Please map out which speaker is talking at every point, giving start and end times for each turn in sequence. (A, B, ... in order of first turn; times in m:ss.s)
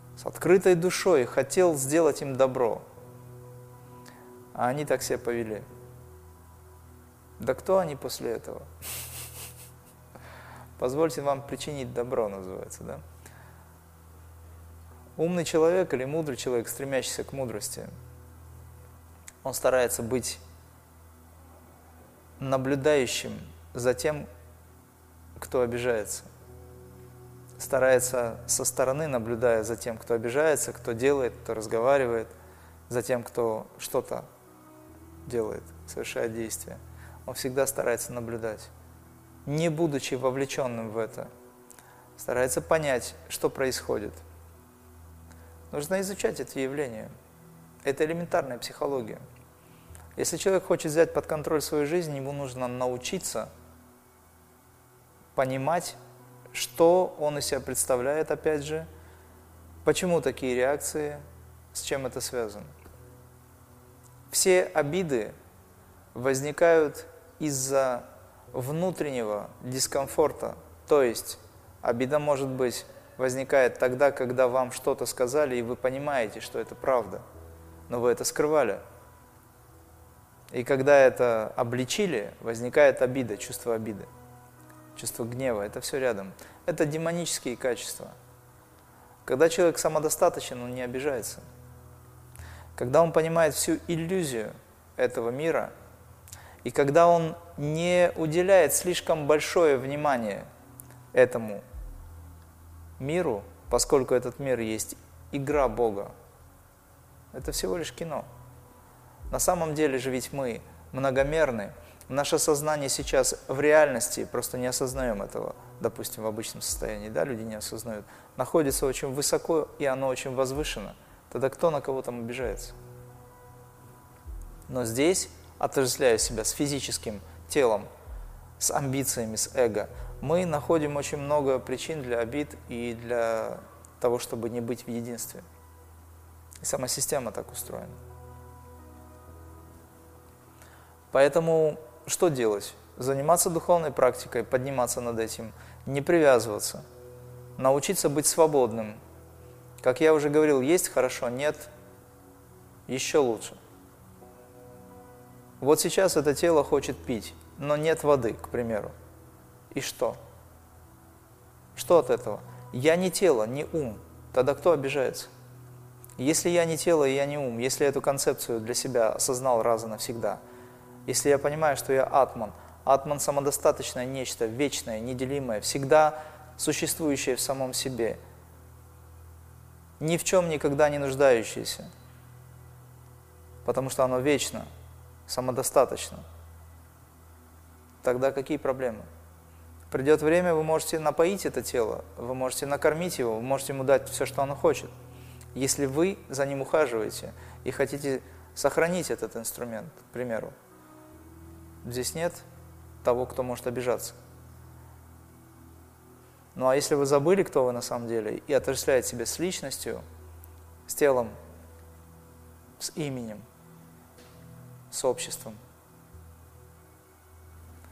0:00.2-0:02.8 A
0:04.5-0:05.6 A
0:07.4-0:08.7 A
0:10.8-0:13.0 A
0:15.2-0:17.9 A
0:19.4-0:20.4 A
0:22.4-0:24.3 A
0:25.4-0:26.3 A
0:27.6-0:32.3 A
0:32.9-0:34.3 A
0:35.2-0:38.7 A
0:39.4-0:41.3 A
0:42.2-0:44.2 A
0:45.7-0:47.1 A
0:47.8-0:49.2 A
0:50.2-0:53.5 A
0:55.3-0:56.0 A
0:56.5-0:58.9 A
0:59.8-1:02.7 A
1:04.3-1:05.3 A
1:06.1-1:17.2 A
1:17.9-1:18.8 A
1:20.5-1:24.1 A
1:24.9-1:28.2 A
1:29.2-1:31.4 A
1:32.8-1:35.7 A
1:36.6-1:40.5 A
1:41.1-1:41.6 A
1:43.0-1:46.1 A
1:47.3-1:48.3 A
1:49.3-2:02.7 A
2:04.7-2:07.9 A
2:08.6-2:15.4 A
2:16.6-2:18.0 A
2:21.1-2:26.8 A
2:27.6-2:29.0 A
2:29.8-2:31.7 A
2:32.9-2:33.6 A
2:35.6-2:38.9 A
2:39.7-2:40.2 A
2:41.7-2:45.3 A
2:46.2-2:50.4 A
2:51.0-2:58.2 A
3:00.0-3:01.9 A
3:03.6-3:04.7 A
3:05.3-3:06.2 A
3:08.0-3:09.0 A
3:09.9-3:14.9 A
3:15.5-3:20.5 A
3:21.8-3:22.4 A
3:23.0-3:24.2 A
3:26.5-3:30.0 A
3:30.9-3:31.3 A
3:32.8-3:33.4 A
3:34.9-3:35.6 A